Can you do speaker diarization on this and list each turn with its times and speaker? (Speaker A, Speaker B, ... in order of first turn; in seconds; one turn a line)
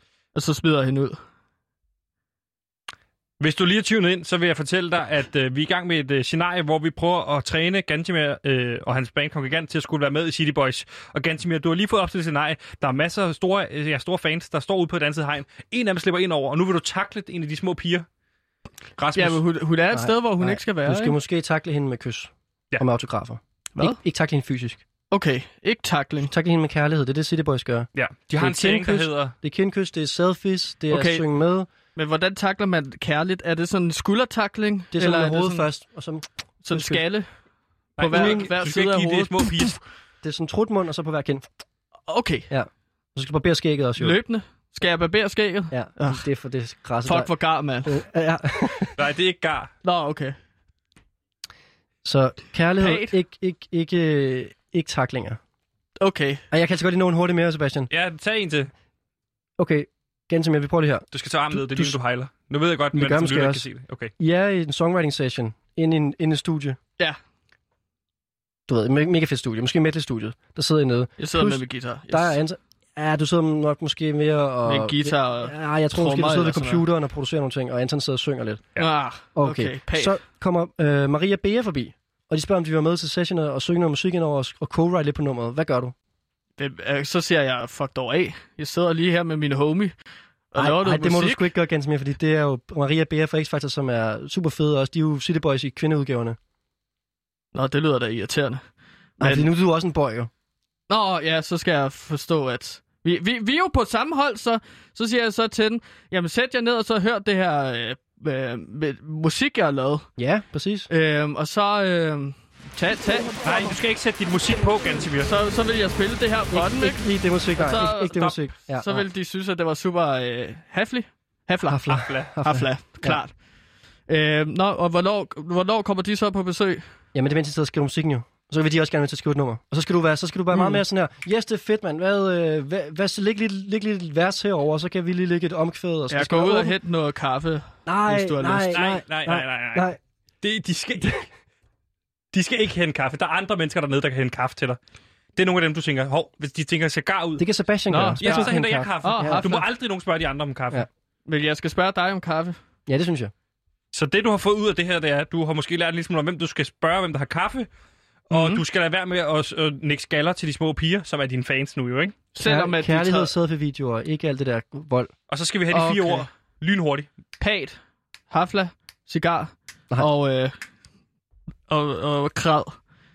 Speaker A: 0.3-1.2
Speaker B: 3.4-18.1
Speaker B: 19.0-19.4
Speaker A: 19.1-21.2
Speaker C: 19.9-24.8
Speaker A: 25.1-26.3
Speaker C: 26.2-31.7
Speaker B: 27.9-29.3
Speaker A: 30.9-31.3
Speaker A: 31.9-35.7
Speaker C: 34.9-37.0
Speaker A: 36.6-37.3
Speaker B: 38.0-39.8
Speaker A: 38.0-39.8
Speaker C: 38.0-38.6
Speaker C: 40.2-41.5
Speaker A: 42.1-42.5
Speaker C: 42.5-44.2
Speaker A: 44.0-46.2
Speaker C: 45.7-47.3
Speaker A: 47.0-48.0
Speaker C: 47.8-48.9
Speaker B: 49.0-49.7
Speaker A: 49.8-50.4
Speaker C: 52.0-55.4
Speaker A: 52.8-53.2
Speaker A: 56.0-56.4
Speaker C: 56.5-57.9
Speaker B: 57.9-58.7
Speaker C: 59.6-61.9
Speaker B: 61.1-64.1
Speaker C: 62.9-63.6
Speaker C: 64.2-66.8
Speaker C: 68.7-78.7
Speaker A: 71.2-72.4
Speaker A: 74.6-76.8
Speaker A: 78.8-80.2
Speaker C: 79.3-85.9
Speaker A: 86.6-89.9
Speaker A: 90.5-91.5
Speaker C: 90.5-96.4
Speaker A: 97.5-98.6
Speaker A: 99.2-99.5
Speaker C: 99.2-100.3
Speaker A: 100.9-110.1
Speaker C: 110.2-110.9
Speaker A: 110.9-113.4
Speaker B: 113.4-115.3
Speaker A: 115.2-123.3
Speaker C: 116.5-119.0
Speaker B: 118.1-118.4
Speaker C: 121.7-123.2
Speaker B: 121.9-122.3
Speaker A: 124.1-126.8
Speaker C: 127.1-136.8
Speaker A: 130.5-130.8
Speaker A: 136.1-138.8
Speaker C: 137.8-140.0
Speaker B: 138.7-139.9
Speaker B: 140.4-141.3
Speaker B: 142.3-144.8
Speaker B: 145.3-147.4
Speaker C: 147.4-149.5
Speaker A: 147.9-149.7
Speaker B: 148.2-150.8
Speaker A: 151.2-152.6
Speaker C: 152.9-153.3
Speaker B: 153.9-157.7
Speaker B: 158.3-162.2
Speaker A: 158.3-158.6
Speaker A: 162.3-163.3
Speaker C: 162.4-165.1
Speaker B: 165.3-167.1
Speaker A: 165.7-166.3
Speaker A: 167.4-167.8
Speaker A: 168.3-170.5
Speaker A: 171.7-172.8